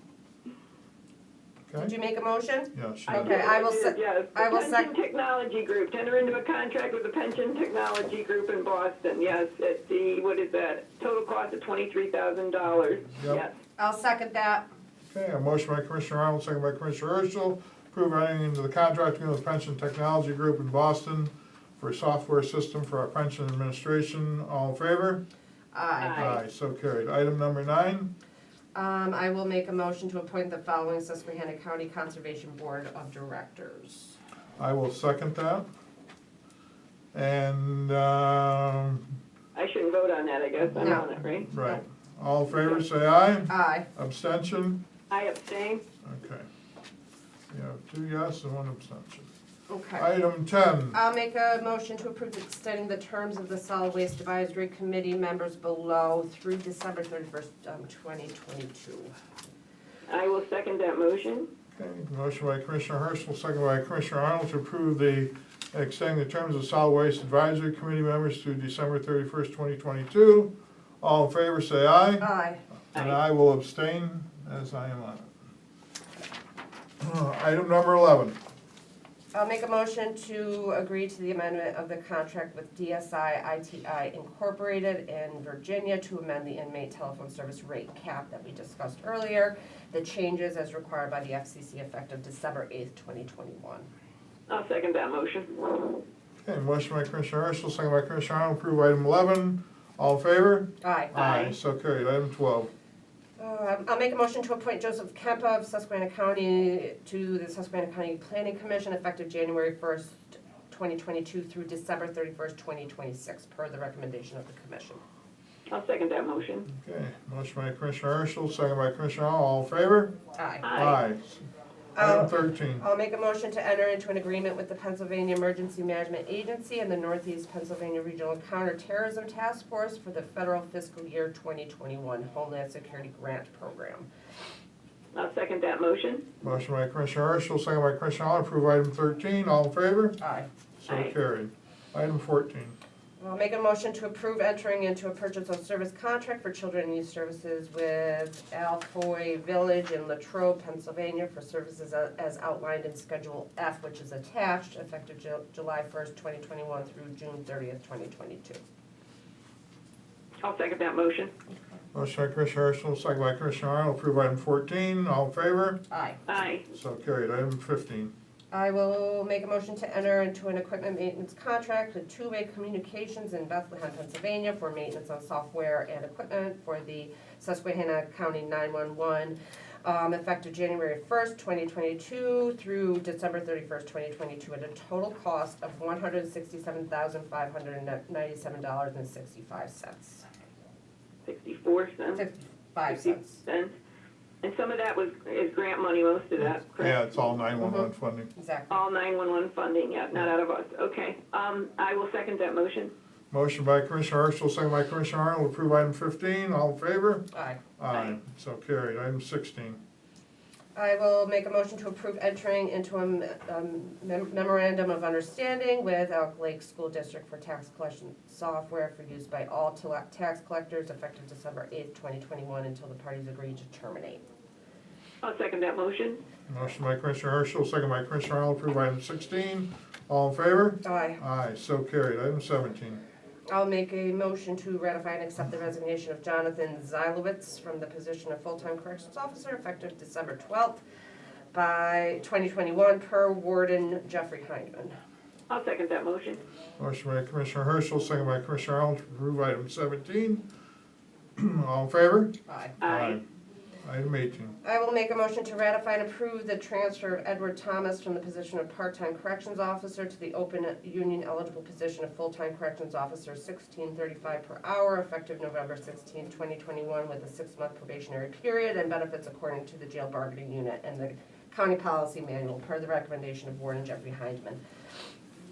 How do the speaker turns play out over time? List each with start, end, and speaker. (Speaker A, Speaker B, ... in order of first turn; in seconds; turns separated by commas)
Speaker A: 1.7-1.9, Speaker B: 1.8-4.9, Speaker A: 2.7-3.4, Speaker C: 3.1-13.5, Speaker A: 13.1-13.4, Speaker B: 13.8-14.7, Speaker A: 15.1-25.2, Speaker B: 25.7-26.4, Speaker C: 26.0-26.3, Speaker A: 26.1-28.1, Speaker B: 28.7-34.2, Speaker A: 34.6-35.6, Speaker A: 37.1-39.0, Speaker C: 39.5-41.5, Speaker B: 40.8-41.8, Speaker A: 40.8-44.8, Speaker B: 43.5-43.9, Speaker C: 45.1-45.8, Speaker A: 46.0-46.5, Speaker A: 47.5-49.3, Speaker B: 49.7-50.0, Speaker A: 50.0-51.0, Speaker B: 50.9-59.1, Speaker C: 60.1-61.5, Speaker A: 61.8-72.3, Speaker B: 72.2-72.6, Speaker A: 72.9-75.3, Speaker A: 77.0-78.4, Speaker B: 79.3-93.9, Speaker C: 94.5-96.0, Speaker A: 96.4-102.7, Speaker B: 100.8-101.5, Speaker B: 103.4-115.0, Speaker C: 115.7-116.7, Speaker A: 116.7-120.1, Speaker B: 120.3-120.9, Speaker C: 120.6-121.0, Speaker A: 120.7-121.4, Speaker B: 122.0-134.1, Speaker A: 122.0-122.8, Speaker C: 135.1-136.2, Speaker A: 136.4-140.2, Speaker B: 140.2-140.5, Speaker A: 140.8-142.8, Speaker C: 140.9-141.1, Speaker B: 143.2-158.6, Speaker C: 160.4-161.3, Speaker A: 161.9-165.8, Speaker B: 165.9-166.2, Speaker C: 166.3-166.7, Speaker A: 166.7-168.1, Speaker B: 168.5-190.2, Speaker C: 191.2-192.2, Speaker B: 192.1-193.4, Speaker C: 192.8-193.7, Speaker C: 194.4-197.0, Speaker A: 196.4-198.3, Speaker B: 197.6-198.8, Speaker C: 198.7-202.9, Speaker A: 203.3-209.8, Speaker B: 207.3-207.6, Speaker C: 207.9-208.2, Speaker B: 210.7-224.2, Speaker C: 225.2-226.2, Speaker A: 226.5-233.0, Speaker B: 230.8-231.2, Speaker B: 233.5-240.8, Speaker B: 241.5-244.9, Speaker C: 245.5-246.4, Speaker A: 246.8-250.4, Speaker A: 251.3-253.2, Speaker B: 252.5-252.7, Speaker C: 252.8-253.2, Speaker A: 253.8-254.5, Speaker B: 254.6-274.6